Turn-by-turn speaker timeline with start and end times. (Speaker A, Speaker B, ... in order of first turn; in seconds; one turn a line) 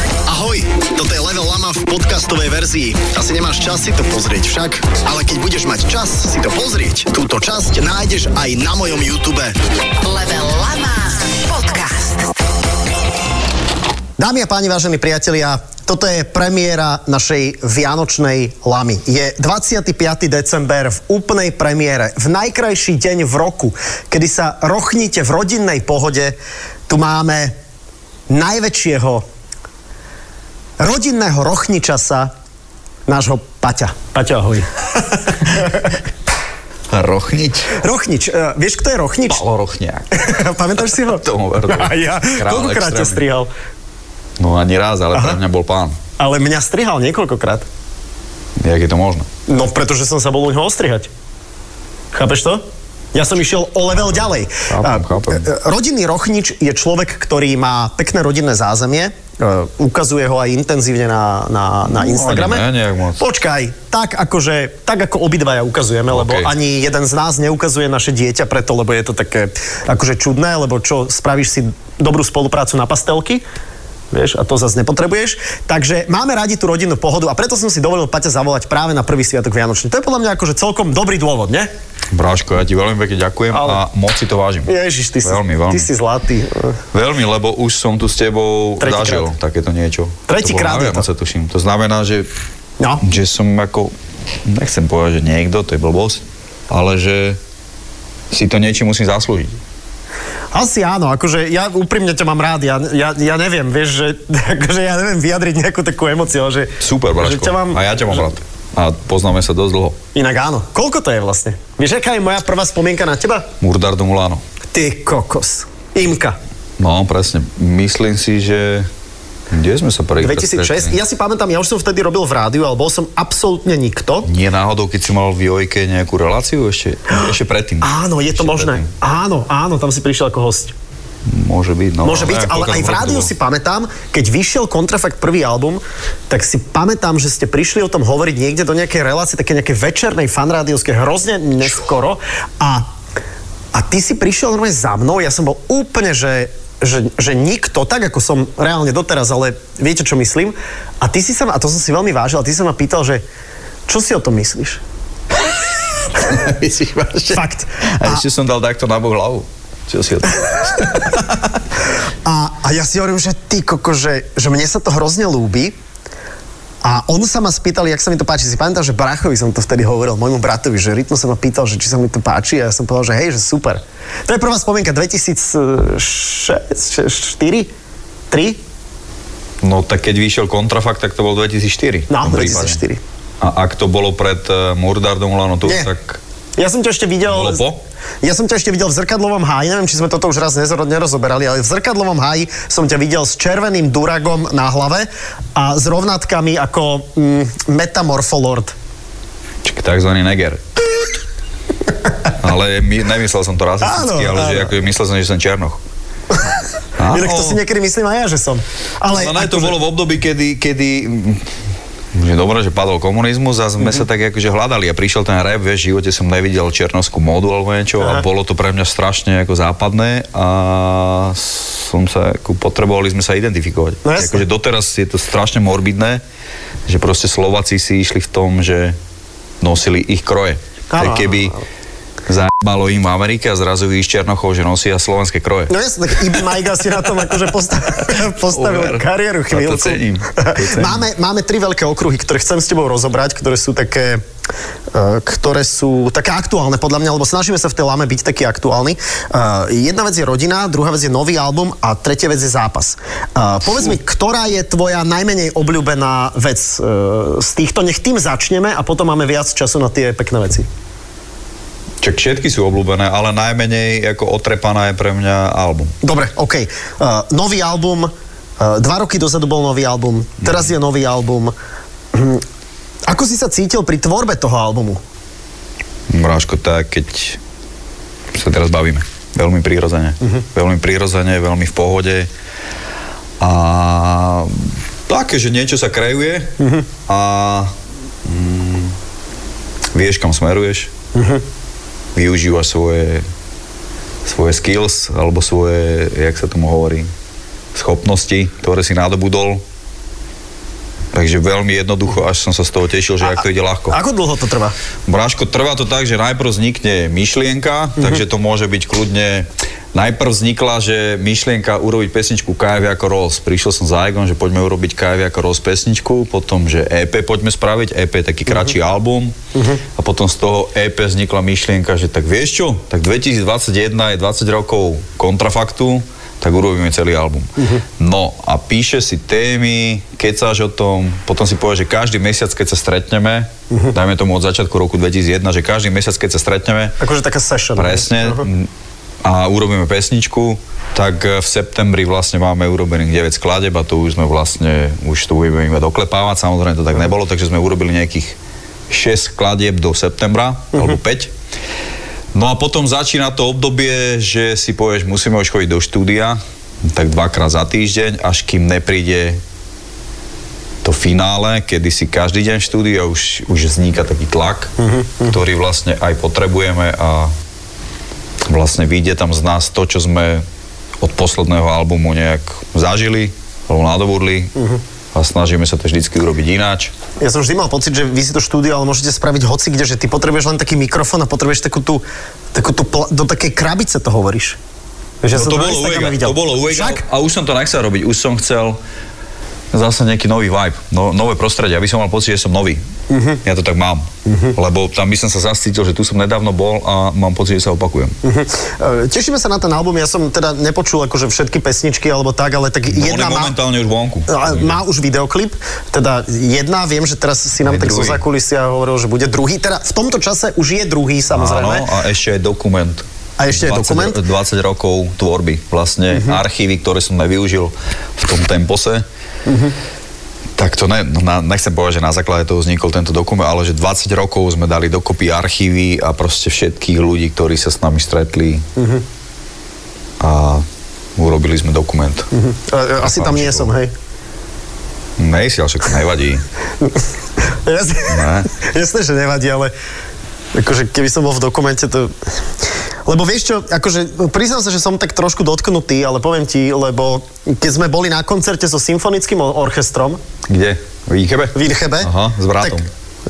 Speaker A: 0.3-9.6
Speaker B: 10.0-12.3
Speaker A: 14.2-26.4
Speaker A: 26.9-27.5
Speaker A: 28.3-29.2
Speaker A: 30.8-32.3
Speaker A: 33.1-36.0
Speaker C: 36.9-37.8
Speaker A: 37.7-39.4
Speaker C: 39.3-40.2
Speaker A: 40.1-43.5
Speaker C: 41.0-43.2
Speaker C: 44.4-46.0
Speaker A: 46.2-47.7
Speaker C: 48.6-49.3
Speaker A: 49.5-51.1
Speaker A: 52.1-52.6
Speaker A: 53.1-62.6
Speaker C: 54.7-55.5
Speaker C: 61.9-63.2
Speaker A: 63.2-73.4
Speaker C: 66.1-66.5
Speaker A: 74.1-81.7
Speaker C: 82.1-84.7
Speaker A: 83.5-83.8
Speaker A: 84.7-86.8
Speaker C: 85.2-85.9
Speaker C: 86.9-92.3
Speaker A: 88.8-89.3
Speaker A: 90.3-91.1
Speaker C: 93.0-93.9
Speaker C: 94.5-97.4
Speaker C: 98.3-99.6
Speaker A: 100.5-108.2
Speaker C: 106.8-110.0
Speaker A: 110.2-113.5
Speaker C: 113.6-114.4
Speaker A: 114.7-116.4
Speaker C: 116.8-118.9
Speaker C: 119.5-121.0
Speaker A: 120.2-124.3
Speaker C: 124.3-128.9
Speaker A: 127.8-130.8
Speaker C: 131.3-133.3
Speaker A: 132.0-142.9
Speaker A: 143.7-153.2
Speaker A: 153.9-154.8
Speaker C: 156.1-157.4
Speaker A: 157.3-158.2
Speaker C: 158.0-161.6
Speaker A: 162.2-165.8
Speaker A: 166.8-177.7
Speaker A: 178.3-178.6
Speaker C: 179.6-182.8
Speaker A: 182.1-183.0
Speaker C: 183.4-186.2
Speaker A: 185.6-185.9
Speaker A: 186.6-187.6
Speaker C: 187.3-187.8
Speaker A: 188.2-198.8
Speaker C: 199.6-200.6
Speaker C: 202.4-205.8
Speaker A: 203.8-204.7
Speaker C: 207.0-207.6
Speaker A: 207.1-209.8
Speaker C: 209.1-211.5
Speaker C: 212.1-226.2
Speaker A: 224.0-224.4
Speaker C: 226.9-229.0
Speaker C: 229.6-231.6
Speaker A: 230.9-231.6
Speaker C: 232.3-236.5
Speaker A: 235.7-244.2
Speaker C: 238.5-241.1
Speaker A: 244.9-260.7
Speaker C: 262.0-265.9
Speaker A: 266.0-271.5
Speaker A: 272.1-272.4
Speaker A: 273.1-275.0
Speaker C: 276.1-277.4
Speaker C: 278.3-282.3
Speaker C: 283.4-286.5
Speaker A: 286.6-286.9
Speaker C: 287.1-287.7
Speaker C: 288.2-289.0
Speaker C: 289.9-290.9
Speaker A: 291.1-291.4
Speaker C: 292.1-293.3
Speaker C: 294.2-297.1
Speaker C: 297.7-299.6
Speaker C: 301.1-304.0
Speaker A: 303.2-304.8
Speaker C: 305.1-319.4
Speaker A: 319.6-319.8
Speaker C: 320.0-337.0
Speaker A: 327.6-327.8
Speaker A: 337.0-338.5
Speaker C: 337.8-338.7
Speaker C: 339.2-348.4
Speaker C: 348.9-351.3
Speaker C: 352.3-359.4
Speaker C: 360.8-364.7
Speaker A: 364.8-365.4
Speaker C: 365.3-367.3
Speaker C: 368.5-370.4
Speaker C: 371.0-374.5
Speaker A: 374.6-374.8
Speaker C: 375.1-376.9
Speaker A: 377.2-384.6
Speaker A: 385.2-387.0
Speaker C: 385.3-388.8
Speaker C: 389.7-392.8
Speaker A: 393.1-393.4
Speaker C: 393.4-398.2
Speaker A: 394.3-394.6
Speaker A: 398.2-403.6
Speaker C: 402.9-404.8
Speaker A: 404.3-411.9
Speaker C: 407.6-408.2
Speaker C: 411.3-419.1
Speaker A: 413.4-414.2
Speaker A: 419.5-419.8
Speaker C: 420.6-428.7
Speaker A: 428.8-429.0
Speaker C: 430.2-430.6
Speaker C: 431.2-432.3
Speaker A: 432.3-433.9
Speaker C: 433.0-433.7
Speaker C: 435.2-436.4
Speaker A: 436.8-439.7
Speaker C: 438.1-438.5
Speaker A: 440.6-442.2
Speaker A: 443.1-450.2
Speaker C: 450.5-452.9
Speaker A: 451.5-452.8